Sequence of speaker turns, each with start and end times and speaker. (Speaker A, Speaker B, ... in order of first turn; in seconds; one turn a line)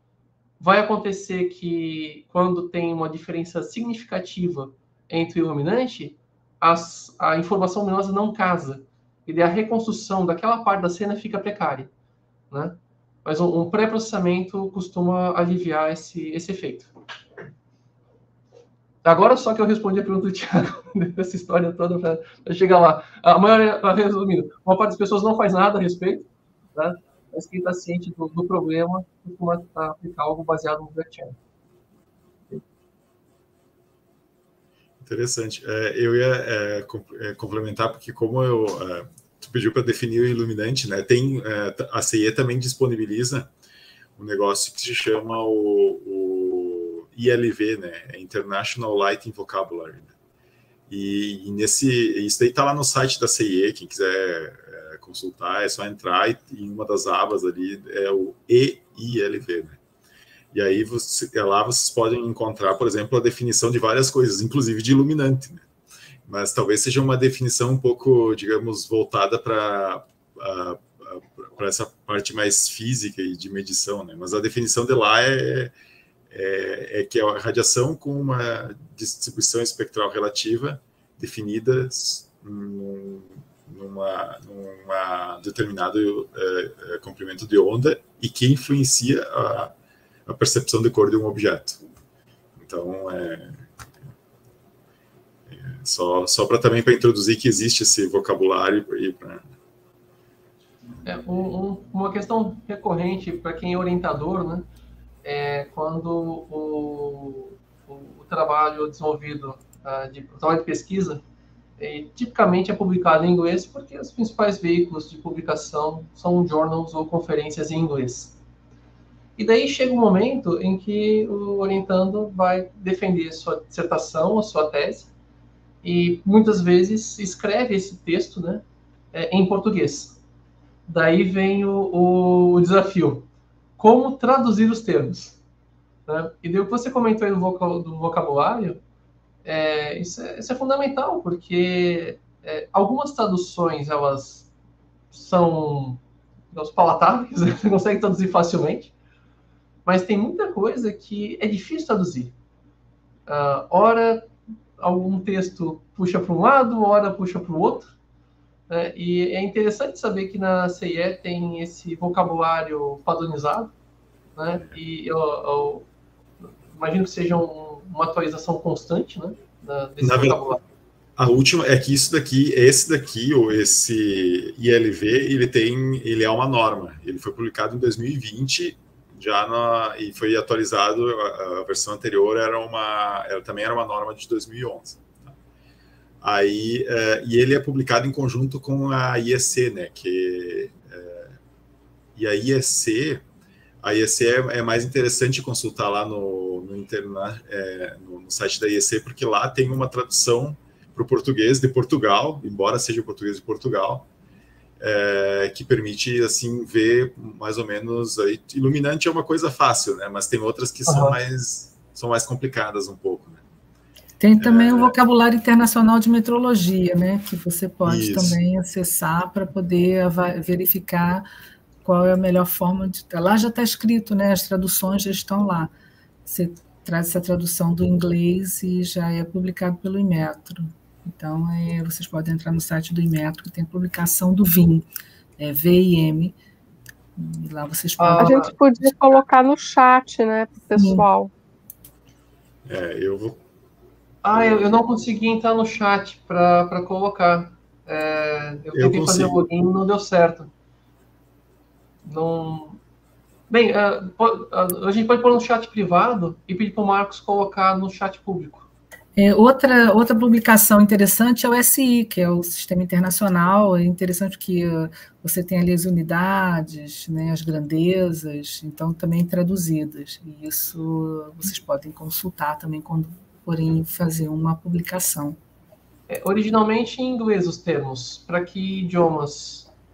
Speaker A: 0.6-11.9
Speaker A: 12.5-16.9
Speaker A: 19.0-31.4
Speaker B: 35.0-43.5
Speaker B: 44.2-50.1
Speaker B: 50.9-59.8
Speaker B: 60.5-65.7
Speaker B: 66.3-75.7
Speaker B: 76.3-89.7
Speaker B: 90.3-91.8
Speaker B: 92.6-93.7
Speaker B: 95.5-99.5
Speaker A: 101.0-104.7
Speaker A: 105.2-111.2
Speaker A: 111.8-118.4
Speaker A: 119.4-125.1
Speaker A: 125.8-130.2
Speaker A: 130.9-133.3
Speaker A: 133.8-135.4
Speaker A: 136.1-138.8
Speaker A: 139.4-144.5
Speaker A: 145.1-146.0
Speaker A: 146.5-148.9
Speaker A: 149.9-152.3
Speaker A: 153.3-157.9
Speaker A: 158.7-163.7
Speaker A: 164.4-165.9
Speaker A: 166.7-170.6
Speaker B: 170.0-170.5
Speaker B: 171.2-185.3
Speaker B: 186.2-191.3
Speaker B: 192.2-193.2
Speaker B: 193.8-204.1
Speaker B: 204.8-213.4
Speaker A: 210.9-211.2
Speaker C: 214.2-221.3
Speaker B: 214.4-215.0
Speaker B: 217.9-218.4
Speaker C: 221.8-225.7
Speaker C: 226.3-234.9
Speaker C: 235.4-236.4
Speaker C: 237.2-238.8
Speaker A: 238.0-238.5
Speaker D: 238.2-241.3
Speaker C: 240.8-241.1
Speaker B: 242.7-243.4
Speaker A: 244.2-250.5
Speaker B: 244.3-244.7
Speaker B: 248.7-249.4
Speaker A: 252.1-252.8
Speaker A: 253.5-258.7
Speaker C: 259.2-275.4
Speaker A: 276.1-279.7